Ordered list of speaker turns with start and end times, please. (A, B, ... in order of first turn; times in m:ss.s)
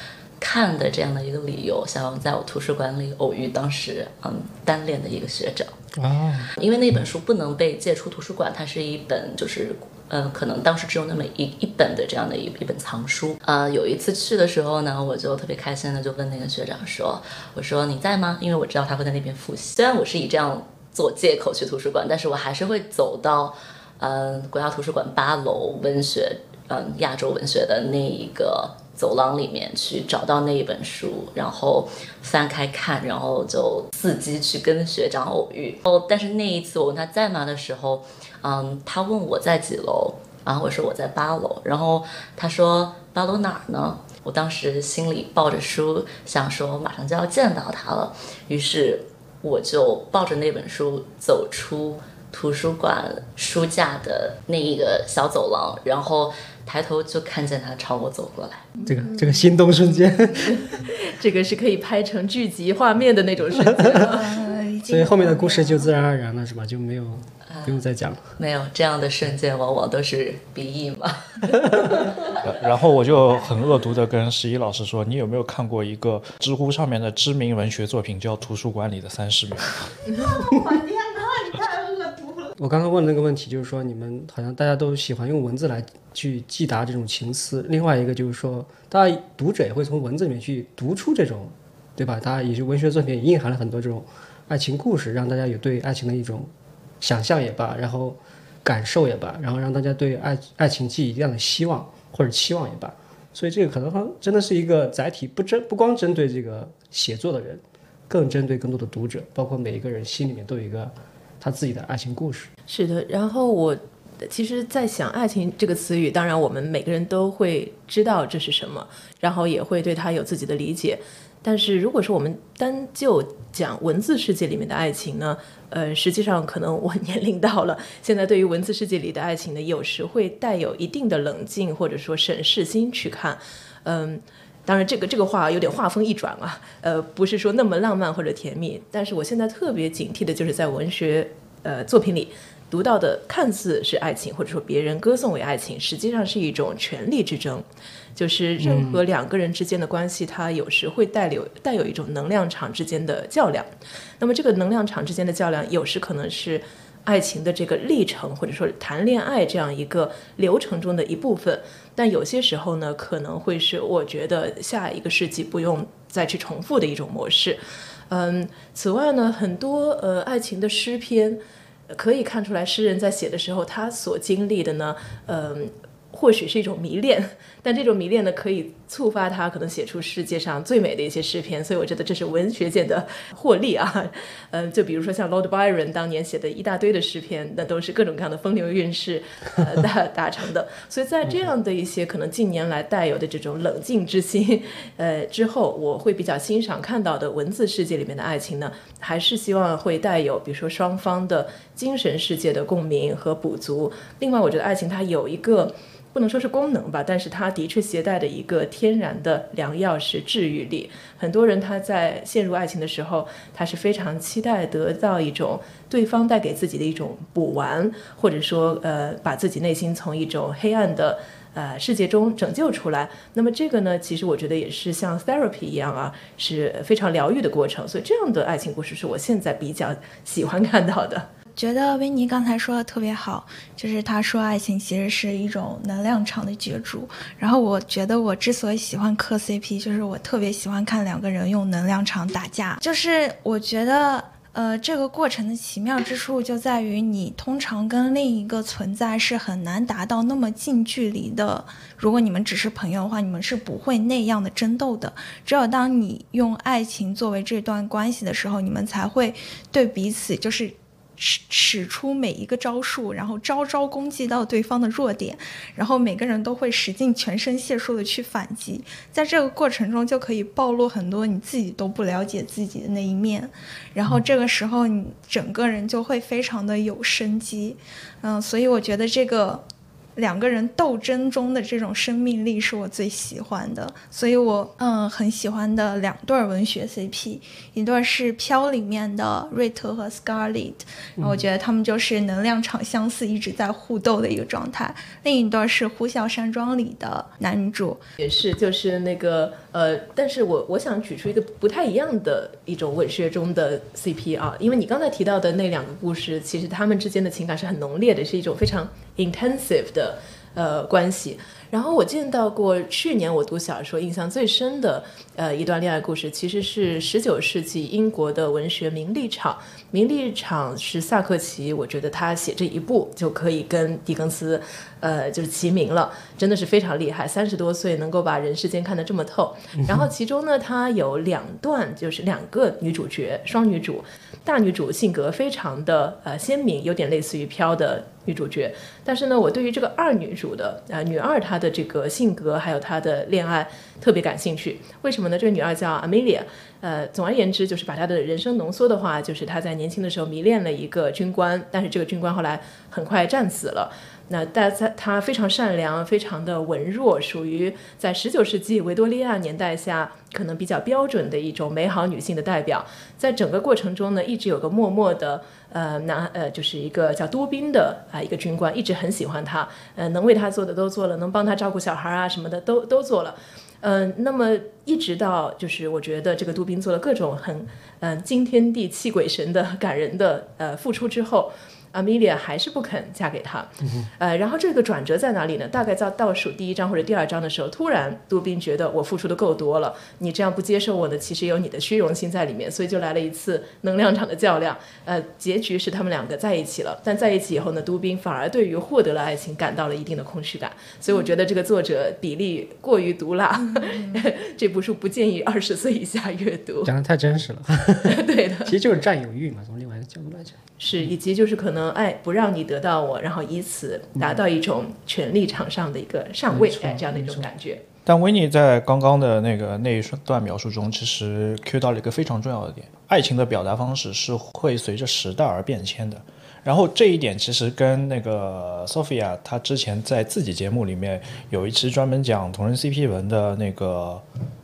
0:00.4-0:05.7 A
0:06.0-0:06.5 B
0:06.6-0:58.7 A
0:58.8-0:59.5 C
0:58.9-1:00.7 B
1:00.3-1:04.4 C
1:03.7-1:04.1 B
1:04.0-1:05.9 D
1:04.9-1:08.2 B
1:07.5-1:07.8 A
1:08.4-1:12.4 A
1:12.4-1:19.8 E
1:20.4-1:22.5 D
1:22.6-1:52.5 B
1:52.7-3:51.3 C
2:28.6-2:29.0 B
3:51.5-4:39.6 D
4:40.2-4:58.0 D
4:51.2-4:51.4 B
4:58.2-6:46.9 C
6:46.8-6:50.6 B
6:48.0-6:48.7 C
6:50.8-6:57.8 C
6:56.5-6:57.5 B
6:58.0-7:14.2 E